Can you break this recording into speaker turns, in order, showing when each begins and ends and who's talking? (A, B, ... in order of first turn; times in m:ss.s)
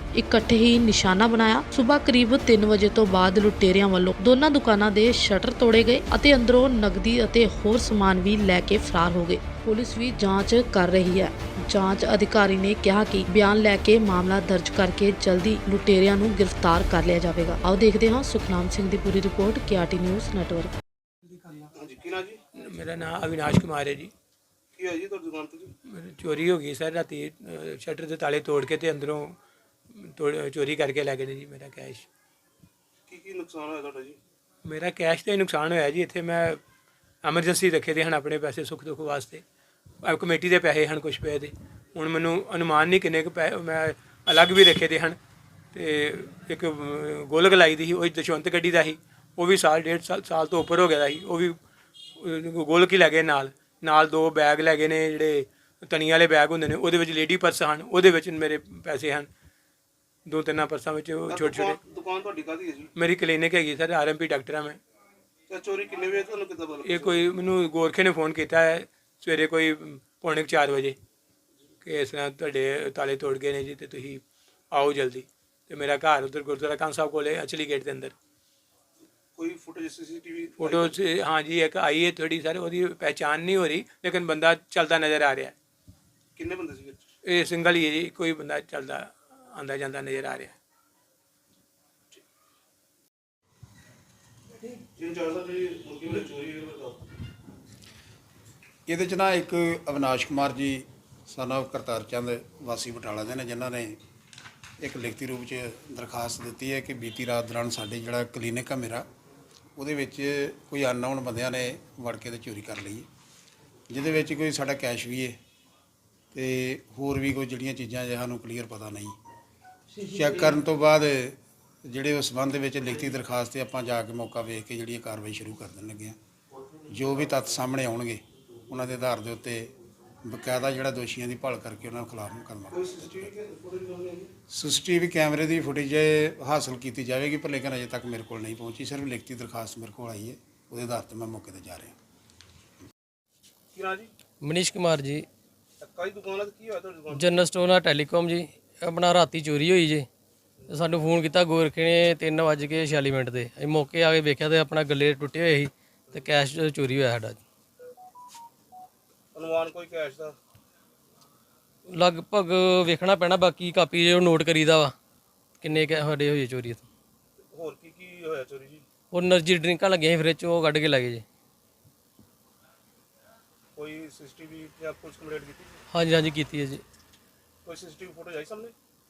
0:00.1-0:20.7 A
0:21.6-0:22.4 B
0:22.5-0:24.1 C
0:24.7-0:25.7 B
0:25.8-0:29.4 C
0:29.9-0:32.1 C
0:33.1-0:34.2 B
0:34.6-0:36.6 C
0:37.2-0:39.4 C
0:40.0-0:45.2 C
0:45.7-0:51.6 C
0:52.2-0:59.3 C
1:00.2-1:01.8 C
1:01.3-1:02.9 B
1:02.9-1:04.8 C
1:05.5-1:07.3 B
1:06.8-1:11.0 C
1:11.8-1:18.1 C
1:19.3-1:21.0 B
1:20.6-1:25.5 C
1:26.4-1:27.0 B
1:27.2-1:30.6 C
1:34.6-1:37.1 B
1:38.8-1:44.0 D
1:44.8-1:49.0 D
1:49.8-1:53.1 D
1:53.9-1:55.4 D
1:56.3-1:59.2 D
2:00.0-2:06.2 D
2:06.9-2:09.7 D
2:10.2-2:13.3 D
2:12.7-2:14.3 B
2:14.5-2:22.0 D
2:23.7-2:24.1 B
2:24.4-2:25.3 E
2:25.8-2:27.4 B
2:27.1-2:30.1 E
2:30.7-2:37.4 E
2:39.3-2:40.4 B
2:41.9-2:44.9 E
2:45.6-2:46.8 E
2:47.5-2:48.8 B
2:49.1-2:51.2 E
2:53.8-2:55.8 B
2:55.9-2:56.8 E
2:57.6-2:58.7 B